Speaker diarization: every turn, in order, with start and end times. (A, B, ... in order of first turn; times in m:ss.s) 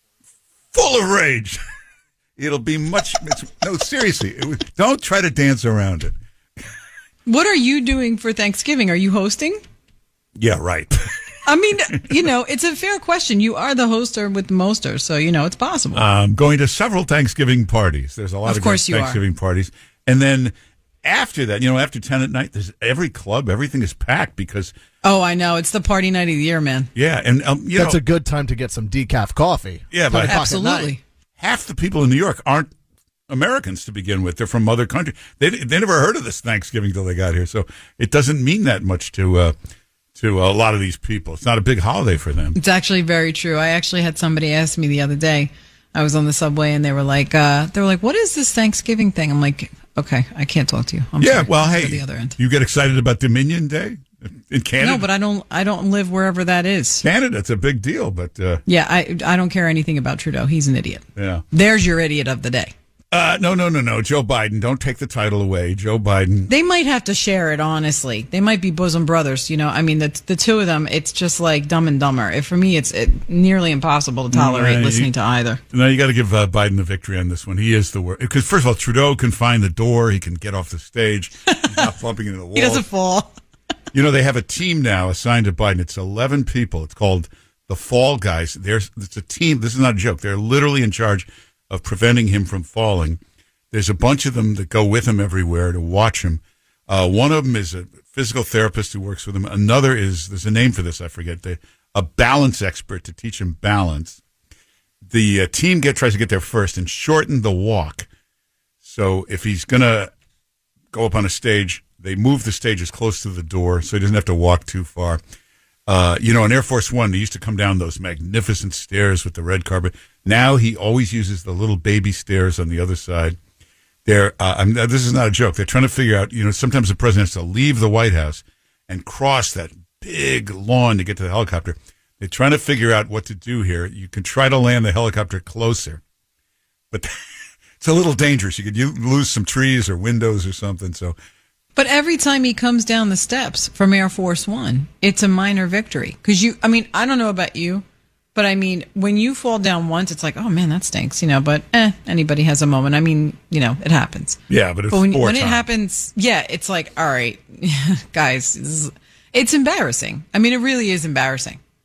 0:00.7-0:01.6 A
0:02.4-0:06.2 A
0:07.2-0:09.6 B
0:10.4-0:11.1 A
0:11.4-0:16.0 B
0:15.9-0:24.7 A
0:18.4-0:19.2 B
0:25.0-0:26.9 B
0:26.9-0:28.0 A
0:27.7-0:30.9 C
0:29.9-0:30.7 A
0:30.1-0:31.0 B
0:31.4-0:32.7 A
0:33.3-0:39.5 A
0:40.1-0:42.6 A
0:42.5-0:52.4 B
0:51.2-0:55.1 A
0:54.8-0:57.0 B
0:57.0-0:58.6 A
0:58.7-1:02.7 B
1:01.2-1:01.4 A
1:03.1-1:06.5 A
1:06.5-1:15.6 B
1:14.3-1:15.1 A
1:15.7-1:22.8 A
1:21.5-1:21.9 B
1:22.5-1:23.4 B
1:23.9-1:44.2 A
1:45.0-1:48.1 A
1:48.8-1:50.1 A
1:50.9-1:55.2 A
1:55.9-2:03.4 A
2:04.0-2:16.0 A
2:17.8-2:21.2 A
2:21.8-2:27.8 B
2:28.3-2:41.6 B
2:34.5-2:35.6 A